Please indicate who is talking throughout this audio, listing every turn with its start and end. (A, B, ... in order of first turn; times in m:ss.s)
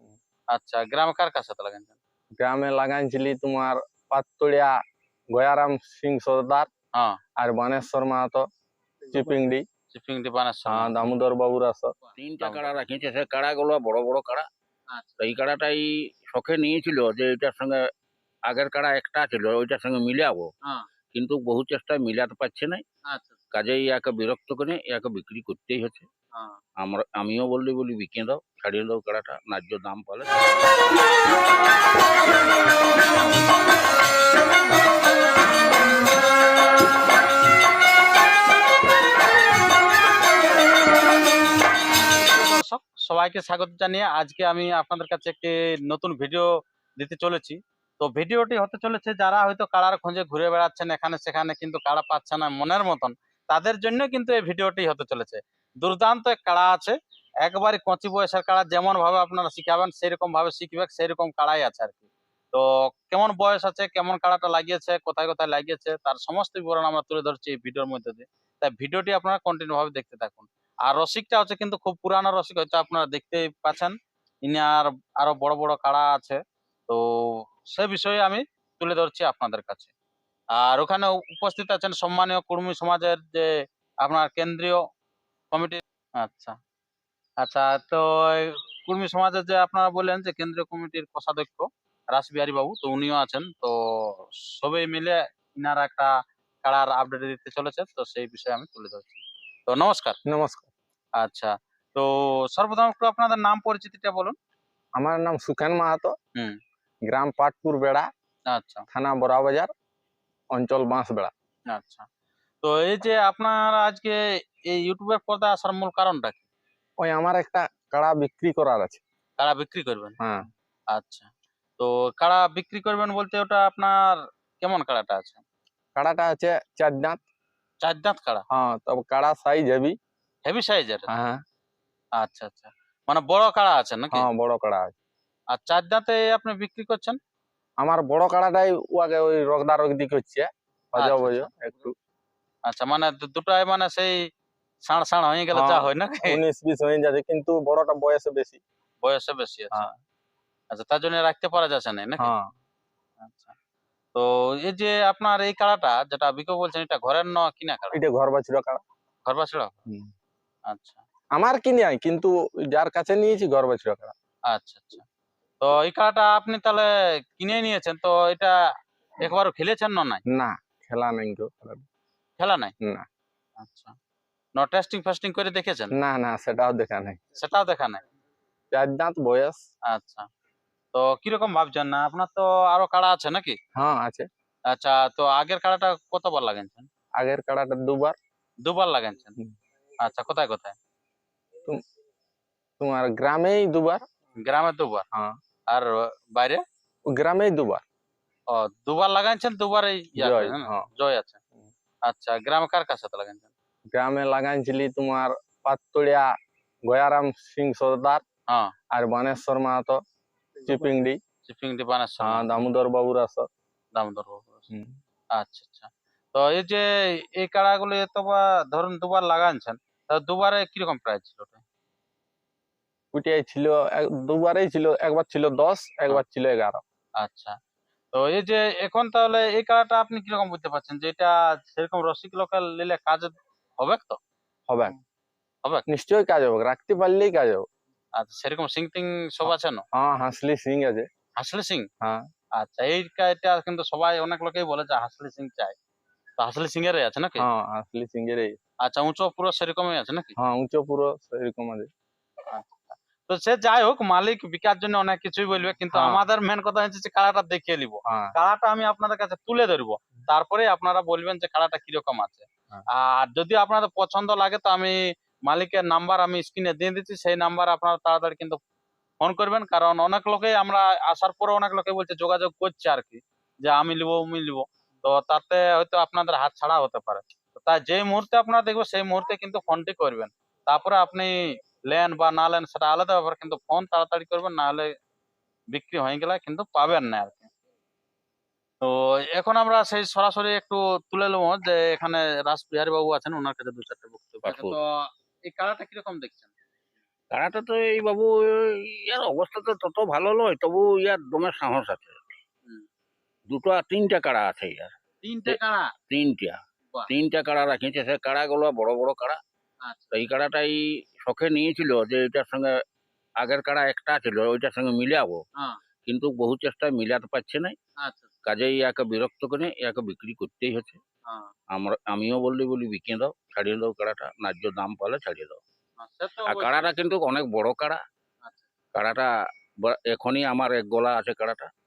0:00.5-0:01.9 A
0:02.4-0:04.7 B
0:05.3-0:06.7 B
0:07.4-0:08.4 B
0:09.1-0:09.6 B
0:09.9-0:11.1 A
0:10.6-0:11.9 B
0:12.0-0:12.7 A
0:12.2-0:14.4 C
0:14.9-0:15.2 A
0:15.2-0:17.8 C
0:18.5-0:20.5 C
0:21.1-0:22.8 C
0:23.1-0:23.4 A
0:23.5-0:26.1 C
0:26.3-0:26.6 A
0:26.8-0:30.3 C
0:42.2-1:19.9 A
1:20.5-1:23.5 A
1:24.0-1:24.8 A
1:25.5-1:26.6 A
1:27.4-1:36.1 A
1:36.6-1:40.2 A
1:40.3-1:40.7 B
1:41.2-1:44.3 A
1:45.0-1:46.1 B
1:47.1-1:48.0 B
1:48.5-1:48.8 A
1:48.9-1:49.7 B
1:50.5-1:51.3 B
1:51.7-1:52.0 A
1:52.6-1:56.4 A
1:57.0-1:59.0 B
1:59.4-2:00.2 A
2:00.9-2:03.9 A
2:04.6-2:05.4 A
2:06.0-2:07.2 B
2:07.8-2:08.4 A
2:08.5-2:09.9 B
2:10.4-2:11.1 A
2:11.1-2:11.4 B
2:12.2-2:14.2 A
2:14.1-2:14.9 B
2:15.5-2:17.2 A
2:17.8-2:21.9 B
2:21.0-2:21.5 A
2:22.7-2:24.2 A
2:24.8-2:26.4 A
2:25.5-2:28.6 B
2:29.0-2:30.0 A
2:30.7-2:32.3 A
2:32.2-2:32.5 B
2:33.2-2:33.5 A
2:34.1-2:38.0 A
2:37.9-2:38.8 B
2:39.2-2:39.8 A
2:40.7-2:41.0 A
2:41.3-2:44.1 B
2:44.5-2:45.0 A
2:45.6-2:48.5 A
2:49.2-2:50.2 A
2:50.3-2:51.8 B
2:52.4-2:52.7 A
2:53.6-2:53.9 A
2:54.6-2:55.9 A
2:56.0-2:57.2 B
2:57.4-2:58.0 A
2:58.7-2:59.6 B
2:59.9-3:00.3 A
3:00.9-3:03.6 A
3:03.8-3:04.2 B
3:04.7-3:06.9 A
3:07.2-3:08.1 B
3:08.6-3:09.4 A
3:10.0-3:10.8 A
3:12.8-3:14.0 B
3:14.4-3:15.0 A
3:15.7-3:16.6 A
3:17.1-3:17.8 B
3:18.5-3:21.4 A
3:20.2-3:20.9 B
3:22.0-3:23.5 A
3:23.9-3:26.3 B
3:26.9-3:28.2 B
3:28.9-3:30.0 B
3:30.6-3:31.2 B
3:31.4-3:32.6 A
3:32.2-3:33.5 B
3:33.9-3:34.7 A
3:35.3-3:41.6 A
3:43.1-3:46.8 B
3:47.2-3:47.6 A
3:48.1-3:54.2 A
3:54.7-3:54.9 B
3:55.9-3:57.6 B
3:58.2-3:59.8 A
3:59.4-4:01.0 B
4:01.4-4:01.9 A
4:02.6-4:05.7 A
4:06.4-4:07.4 A
4:07.4-4:08.6 B
4:08.8-4:10.3 A
4:10.4-4:11.9 B
4:12.5-4:28.6 A
4:15.9-4:16.2 B
4:18.1-4:18.3 B
4:29.2-4:41.4 A
4:41.9-4:44.9 A
4:45.7-4:47.5 A
4:48.8-4:56.5 A
4:54.4-4:54.8 C
4:57.3-5:02.4 C
5:03.5-5:04.9 C
5:05.2-5:05.9 A
5:06.1-5:09.4 C
5:09.8-5:10.2 A
5:10.1-5:12.7 C
5:13.4-5:15.4 C
5:16.0-5:17.8 C
5:18.0-5:18.3 A
5:18.4-5:21.0 C
5:21.2-5:21.5 A
5:21.7-5:25.6 C
5:26.0-5:27.0 A
5:26.4-5:28.0 C
5:28.9-5:29.3 C
5:29.8-5:31.7 C